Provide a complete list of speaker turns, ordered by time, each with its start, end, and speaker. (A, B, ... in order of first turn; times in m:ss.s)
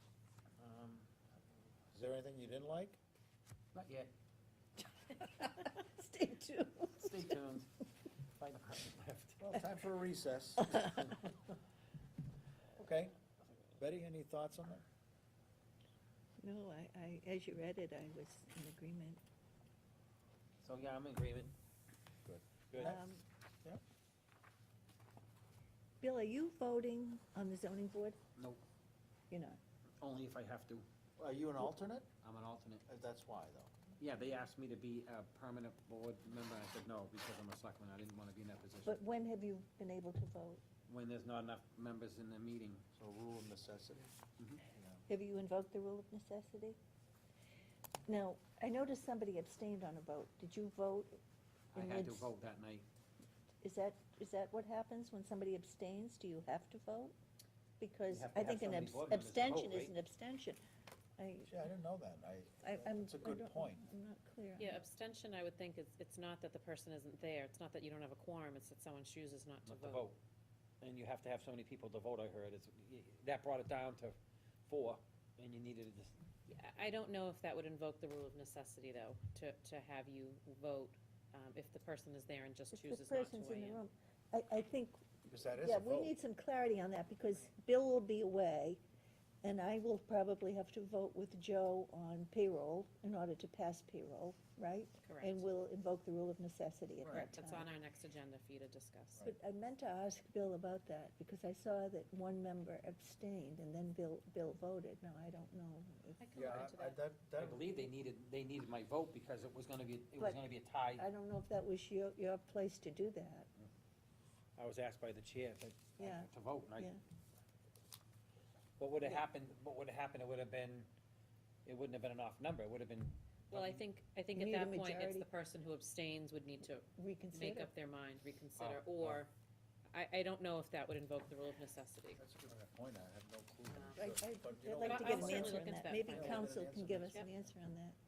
0:00.6-0:01.1 A
0:01.9-0:03.0 B
0:03.7-0:04.1 A
0:05.0-0:07.4 C
0:07.0-0:07.8 A
0:08.4-0:09.5 A
0:09.4-0:10.8 B
0:10.7-0:11.0 C
0:12.8-0:13.1 B
0:13.7-0:14.8 B
0:16.4-0:19.2 C
0:20.6-0:21.5 A
0:22.2-0:23.1 B
0:22.7-0:23.0 A
0:22.8-0:23.2 C
0:26.0-0:28.2 C
0:28.4-0:28.6 A
0:29.3-0:29.6 C
0:30.0-0:30.9 A
0:31.2-0:32.1 B
0:32.2-0:32.9 A
0:32.9-0:33.8 B
0:34.0-0:39.0 A
0:38.8-0:40.6 C
0:40.9-0:42.8 A
0:43.0-0:45.0 B
0:45.1-0:46.8 C
0:48.1-0:51.2 C
0:51.7-0:52.9 A
0:51.8-0:52.3 C
0:53.6-0:57.2 C
0:57.8-1:00.6 C
0:58.1-0:59.9 A
1:01.2-1:01.7 C
1:01.5-1:03.8 B
1:02.6-1:04.8 C
1:04.6-1:10.1 D
1:09.7-1:10.2 A
1:10.8-1:16.2 A
1:16.5-1:23.8 D
1:22.7-1:25.0 C
1:25.3-1:26.1 B
1:25.6-1:28.8 C
1:29.4-1:37.7 C
1:35.0-1:35.4 D
1:37.0-1:37.3 B
1:37.1-1:39.2 D
1:39.2-1:46.4 C
1:46.2-1:47.0 D
1:46.4-1:47.8 B
1:47.4-1:51.1 A
1:51.0-1:53.5 C
1:54.6-1:56.9 A
1:56.0-1:57.0 C
1:58.8-2:00.9 A
2:01.6-2:03.8 A
2:03.5-2:09.3 D
2:04.3-2:05.3 C
2:07.0-2:07.7 C
2:08.6-2:09.2 A
2:09.9-2:12.2 D
2:12.2-2:17.4 B
2:13.7-2:14.0 D
2:14.0-2:18.0 C
2:14.8-2:16.6 D